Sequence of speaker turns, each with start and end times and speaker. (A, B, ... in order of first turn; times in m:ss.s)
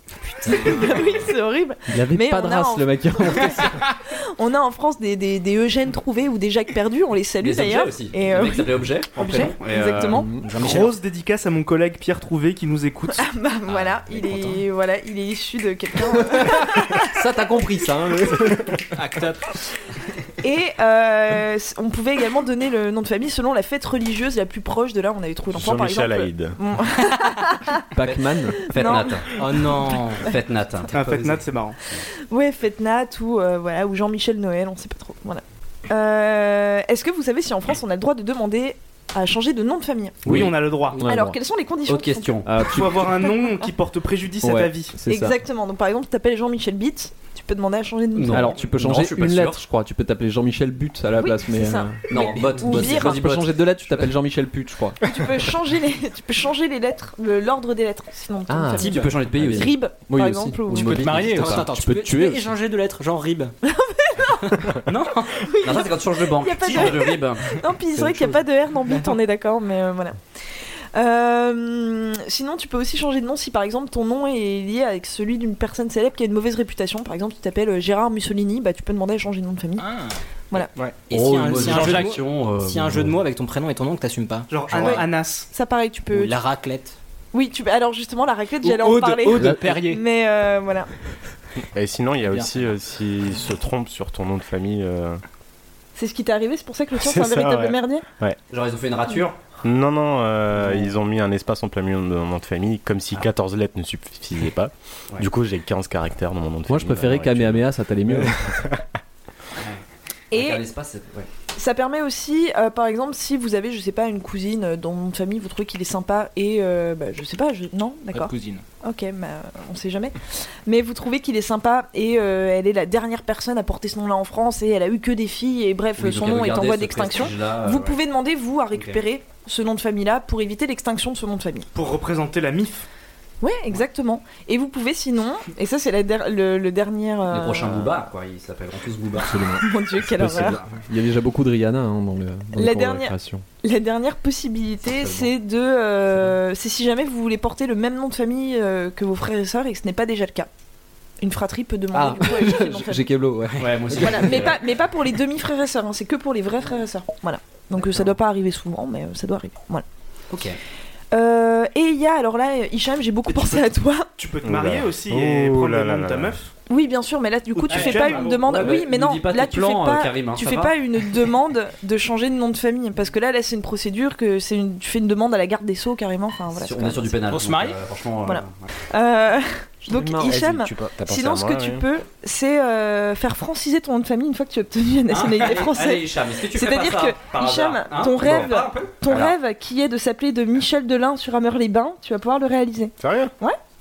0:00.4-0:01.0 A
0:00.4-0:10.3 B
0:00.5-0:01.0 C
0:01.9-0:03.9 D
0:07.4-0:10.2 C
0:10.1-0:10.4 D
0:10.4-0:11.0 A
0:10.5-0:13.2 E
0:13.2-0:17.1 B
0:13.8-0:14.6 A
0:17.1-0:18.8 D
0:18.9-0:19.5 F
0:20.4-0:27.8 B
0:25.5-0:26.6 G
0:27.9-0:28.7 D
0:28.0-0:32.0 C
0:28.7-0:29.9 B
0:29.3-0:30.2 A
0:30.9-0:31.8 E
0:32.3-0:40.4 B
0:40.2-0:40.5 C
0:40.2-0:41.4 D
0:40.3-0:41.0 E
0:41.0-0:43.7 B
0:41.8-0:42.5 C
0:42.4-0:43.1 D
0:42.6-0:45.0 E
0:44.4-0:45.4 D
0:45.1-0:48.6 B
0:48.1-0:49.6 C
0:48.3-0:55.0 D
0:51.2-0:53.2 B
0:52.1-0:54.1 C
0:52.3-0:52.8 A
0:55.0-1:01.0 B
0:58.5-1:02.5 D
0:58.8-0:59.7 C
1:00.7-1:01.7 C
1:00.9-1:03.5 A
1:01.0-1:01.6 F
1:03.7-1:04.5 B
1:05.3-1:10.2 B
1:05.6-1:07.6 C
1:10.9-1:19.9 B
1:19.8-1:20.2 F
1:21.1-1:25.1 A
1:21.1-1:23.1 C
1:21.6-1:22.2 F
1:24.5-1:25.5 E
1:24.8-1:26.4 B
1:26.1-1:27.0 A
1:27.3-1:30.9 B
1:28.6-1:30.0 F
1:29.3-1:29.6 D
1:31.7-1:35.2 G
1:32.2-1:32.7 F
1:36.0-1:38.0 B
1:37.0-1:38.4 G
1:38.5-1:39.4 C
1:39.6-1:48.8 G
1:46.7-1:48.4 D
1:50.3-1:50.6 B
1:50.3-1:51.3 C
1:51.6-2:11.7 B
1:58.1-1:58.6 F
2:06.0-2:08.0 C
2:08.7-2:09.0 C
2:11.7-2:12.8 E
2:13.4-2:18.0 B
2:17.3-2:19.4 C
2:19.2-2:23.4 D
2:19.6-2:20.6 B
2:22.5-2:30.5 B
2:24.9-2:25.3 C
2:31.2-2:33.1 B
2:31.9-2:34.5 D
2:33.6-2:34.6 C
2:33.9-2:39.8 B
2:40.3-2:40.6 A
2:41.1-2:44.1 B
2:43.3-2:46.5 E
2:44.4-2:46.4 G
2:46.7-2:57.2 B
2:47.5-2:48.6 E
2:47.7-2:48.7 F
2:48.3-2:50.8 C
2:56.5-2:58.7 C
2:57.3-2:57.8 F
2:58.2-3:13.6 B
2:59.9-3:00.5 D
3:00.0-3:01.8 G
3:05.1-3:08.9 C
3:09.1-3:09.4 G
3:13.0-3:13.3 G